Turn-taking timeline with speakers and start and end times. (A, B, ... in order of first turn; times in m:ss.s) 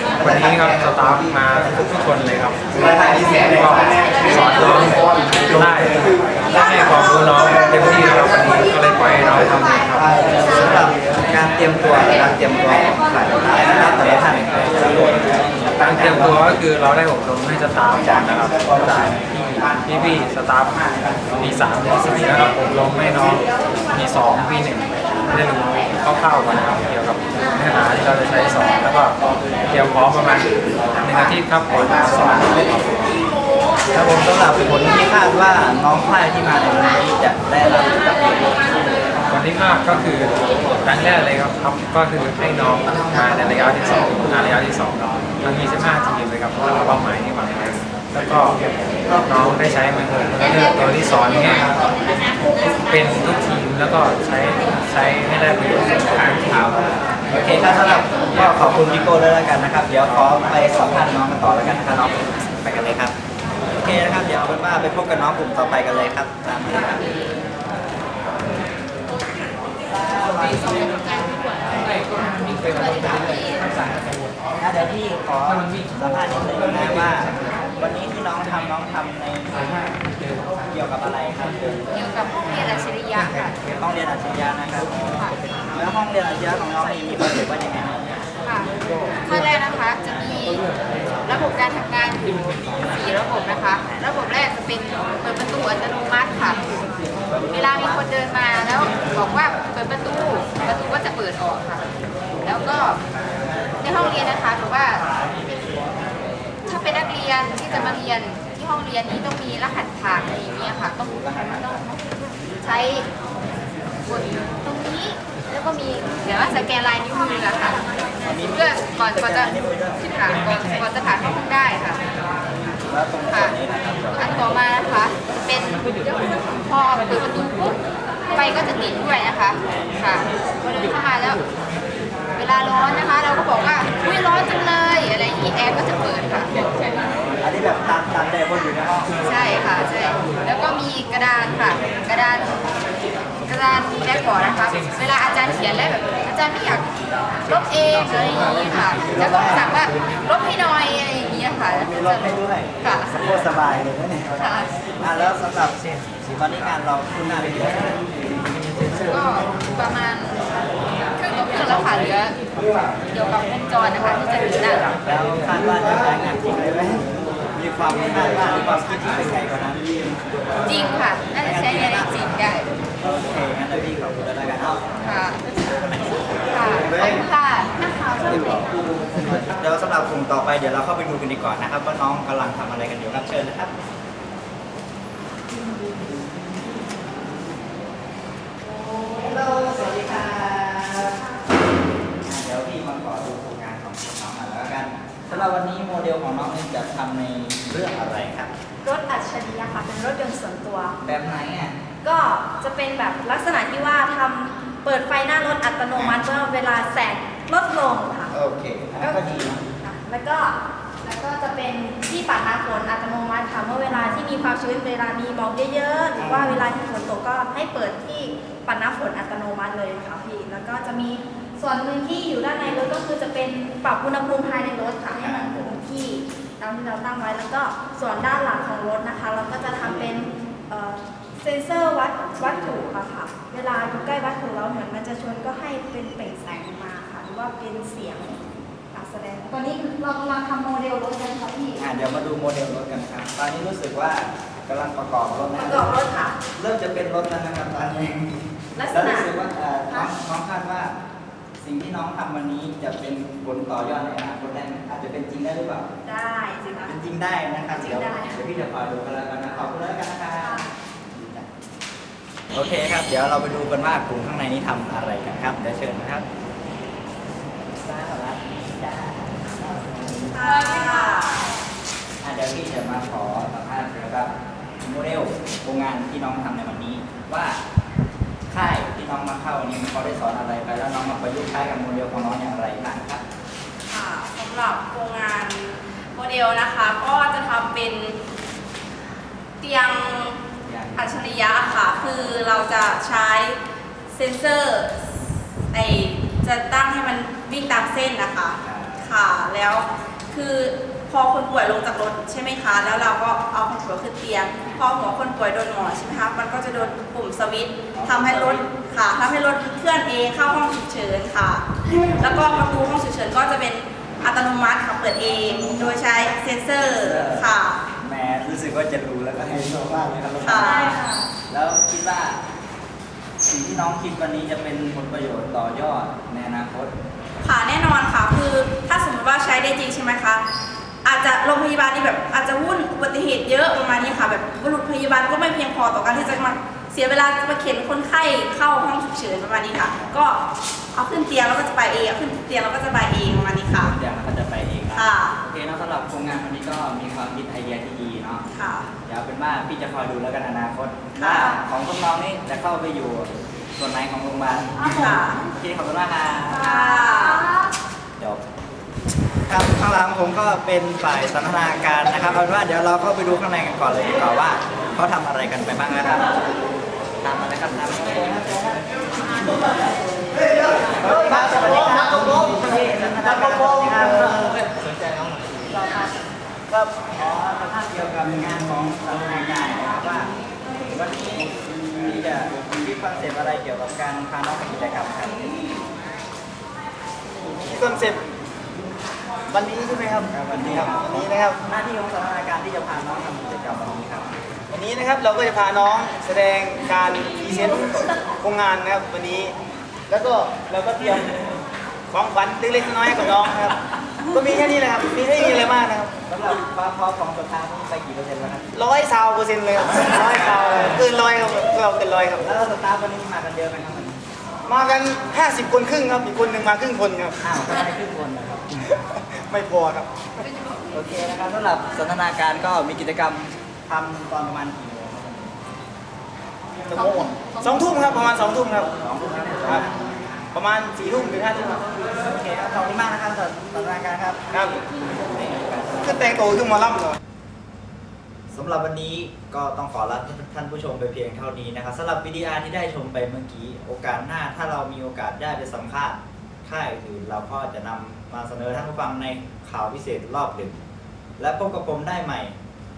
0:00.2-0:10.6 A
0:10.3-0:16.5 B
0:15.8-0:33.2 A
0:17.9-0:20.2 B
0:33.9-0:38.9 B
0:39.3-0:51.8 A
0:52.6-0:57.0 A
0:57.3-1:03.2 B
1:03.7-1:07.2 B
1:09.9-1:11.2 B
1:12.7-1:22.0 B
1:12.7-1:13.6 C
1:22.0-1:23.5 C
1:23.6-1:28.1 B
1:28.5-1:28.7 C
1:29.4-1:30.6 C
1:31.2-1:32.3 C
1:32.8-1:36.6 C
1:37.3-1:38.1 B
1:37.5-1:41.9 C
1:42.4-1:43.0 C
1:43.8-1:45.1 C
1:46.7-1:51.7 C
1:47.7-1:48.0 B
1:50.7-1:52.0 B
1:52.6-1:53.1 C
1:54.1-1:57.8 C
1:58.2-2:00.0 B
1:58.5-2:02.0 C
2:02.8-2:04.6 B
2:04.2-2:07.8 C
2:08.3-2:11.4 C
2:12.4-2:16.6 C
2:16.5-2:19.2 B
2:19.3-2:22.5 C
2:23.4-2:26.9 C
2:27.5-2:33.2 C
2:29.0-2:29.8 B
2:31.7-2:38.1 B
2:34.4-2:34.7 C
2:39.0-2:40.4 C
2:41.2-2:42.4 C
2:42.5-2:43.0 B
2:43.1-2:44.9 C
2:44.8-2:57.2 B
2:50.7-2:52.6 C
2:55.0-2:55.4 C
2:56.6-2:57.7 C
2:58.2-3:03.7 B
3:08.6-3:11.3 B
3:12.2-3:18.5 B
3:15.3-3:15.6 D
3:18.8-3:21.0 D
3:21.0-3:21.8 B
3:22.0-3:28.4 D
3:28.3-3:29.6 B
3:29.0-4:01.8 D
3:36.2-3:36.7 B
3:45.2-3:45.8 B
4:01.8-4:05.9 B
4:05.6-4:06.4 D
4:06.6-4:11.0 B
4:08.8-4:09.3 D
4:11.6-4:15.9 B
4:16.0-4:17.0 D
4:16.8-4:21.5 B
4:17.7-4:18.4 D
4:20.4-4:20.7 D
4:22.5-4:26.3 B
4:27.7-4:30.5 B
4:30.3-4:31.4 E
4:30.4-4:31.4 D
4:32.2-4:37.6 B
4:38.5-4:43.2 B
4:43.9-4:48.2 E
4:49.6-4:50.4 E
4:50.6-4:51.2 B
4:51.0-4:53.6 E
4:54.1-4:55.0 E
4:55.7-5:17.8 E
4:58.6-4:59.1 B
5:07.9-5:08.7 B
5:15.2-5:16.0 B
5:16.8-5:17.5 B
5:18.0-5:22.4 B
5:20.4-5:21.0 E
5:20.6-5:21.3 D
5:23.4-5:26.9 B
5:27.4-5:30.4 E
5:31.0-5:44.0 E
5:43.7-5:48.4 B
5:44.9-5:45.4 E
5:48.5-5:48.9 E
5:49.1-5:56.8 B
5:51.2-5:51.6 E
5:54.8-5:55.4 E
5:56.6-5:57.5 E
5:56.7-5:57.5 D
5:59.5-6:06.4 B
6:07.2-6:08.9 B
6:10.8-6:14.7 B
6:15.7-6:16.1 B
6:16.7-6:20.3 B
6:20.9-6:25.7 B
6:27.7-6:28.2 F
6:29.5-6:31.6 F
6:30.2-6:34.3 B
6:34.7-6:39.5 F
6:40.1-6:41.4 F
6:42.1-6:43.8 F
6:44.3-6:46.1 F
6:46.3-6:48.7 B
6:48.7-6:52.4 F
6:52.4-6:54.2 B
6:54.7-6:57.4 F
6:57.4-6:58.8 B
6:58.9-7:00.5 F
7:00.5-7:00.8 C
7:00.9-7:05.6 B
7:06.9-7:08.9 F
7:08.9-7:09.9 B
7:10.5-7:11.8 F
7:12.1-7:16.7 B
7:14.5-7:14.8 F
7:16.0-7:17.2 F
7:18.5-7:30.8 B
7:31.4-7:32.6 B